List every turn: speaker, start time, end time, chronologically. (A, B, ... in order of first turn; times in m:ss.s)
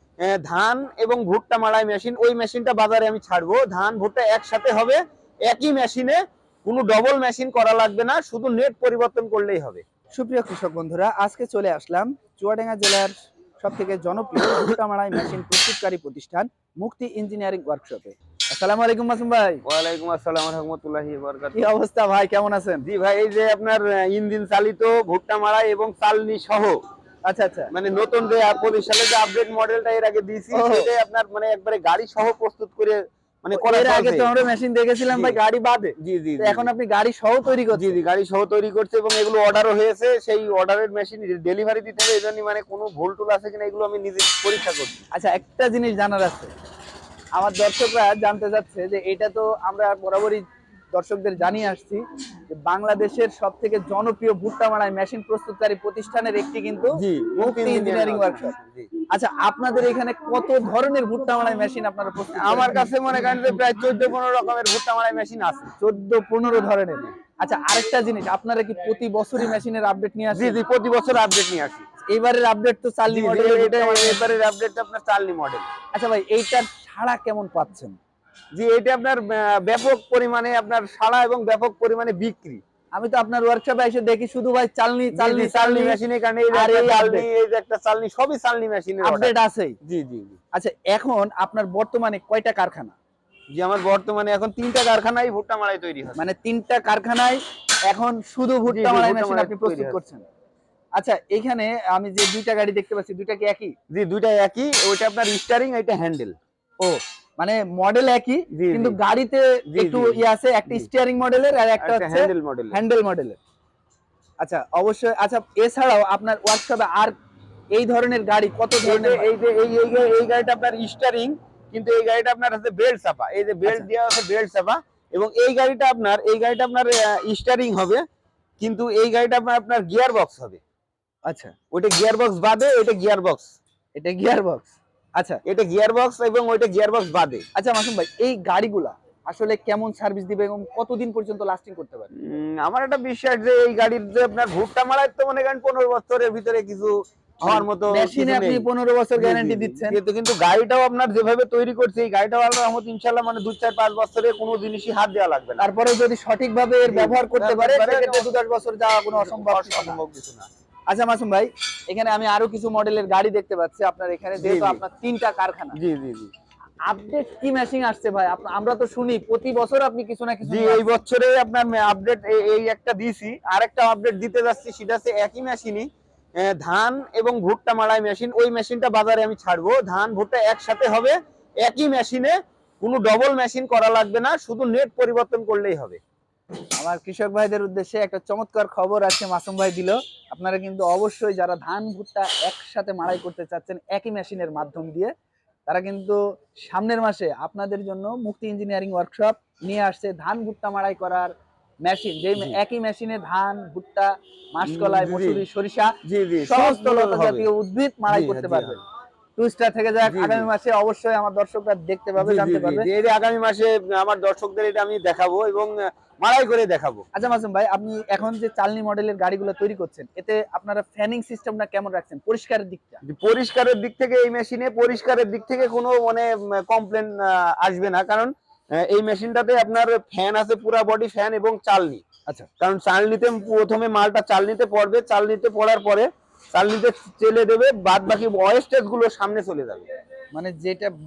0:00.2-0:09.8 A
0:10.2-0:19.6 B
0:19.6-0:21.6 A
0:21.5-0:22.8 B
0:22.8-0:26.8 A
0:27.2-0:27.7 B
0:27.7-0:34.3 A
0:30.5-0:30.9 B
0:33.6-0:38.0 B
0:35.1-0:35.4 A
0:36.0-0:36.7 A
0:37.7-0:45.0 A
0:45.1-0:46.5 B
0:47.4-0:58.5 B
0:56.9-0:58.9 A
0:59.1-1:02.9 B
1:02.3-1:05.7 A
1:05.8-1:10.6 B
1:10.3-1:11.8 A
1:12.1-1:14.2 B
1:13.1-1:15.7 A
1:15.9-1:18.0 B
1:18.5-1:22.6 A
1:23.0-1:26.0 B
1:25.1-1:30.4 A
1:26.5-1:27.2 B
1:29.0-1:29.8 B
1:30.5-1:33.0 B
1:33.5-1:36.3 A
1:36.2-1:40.2 B
1:38.7-1:40.0 A
1:41.0-1:43.7 B
1:43.9-1:46.4 A
1:46.8-1:53.4 B
1:48.5-1:49.0 A
1:49.7-1:50.9 A
1:51.8-1:52.8 A
1:54.4-1:57.1 B
1:57.7-1:59.3 B
1:58.8-2:08.0 A
2:08.6-2:10.6 A
2:11.2-2:11.5 B
2:11.7-2:13.6 A
2:14.0-2:15.4 B
2:15.4-2:17.4 A
2:17.5-2:22.1 B
2:22.1-2:35.6 A
2:27.4-2:30.0 B
2:35.6-2:40.0 B
2:36.8-2:38.3 A
2:39.1-2:40.5 A
2:40.9-2:45.8 B
2:44.4-2:44.8 A
2:45.7-2:46.3 A
2:46.9-2:50.8 B
2:50.4-2:55.9 A
2:56.4-3:06.0 A
3:06.8-3:15.1 B
3:15.7-3:21.3 B
3:21.8-3:28.8 B
3:24.6-3:25.4 A
3:26.0-3:27.5 A
3:28.1-3:28.8 A
3:29.4-3:32.9 B
3:30.0-3:30.5 A
3:32.2-3:37.0 A
3:37.1-3:43.0 B
3:43.0-3:52.0 A
3:52.6-3:59.9 A
4:00.3-4:00.9 B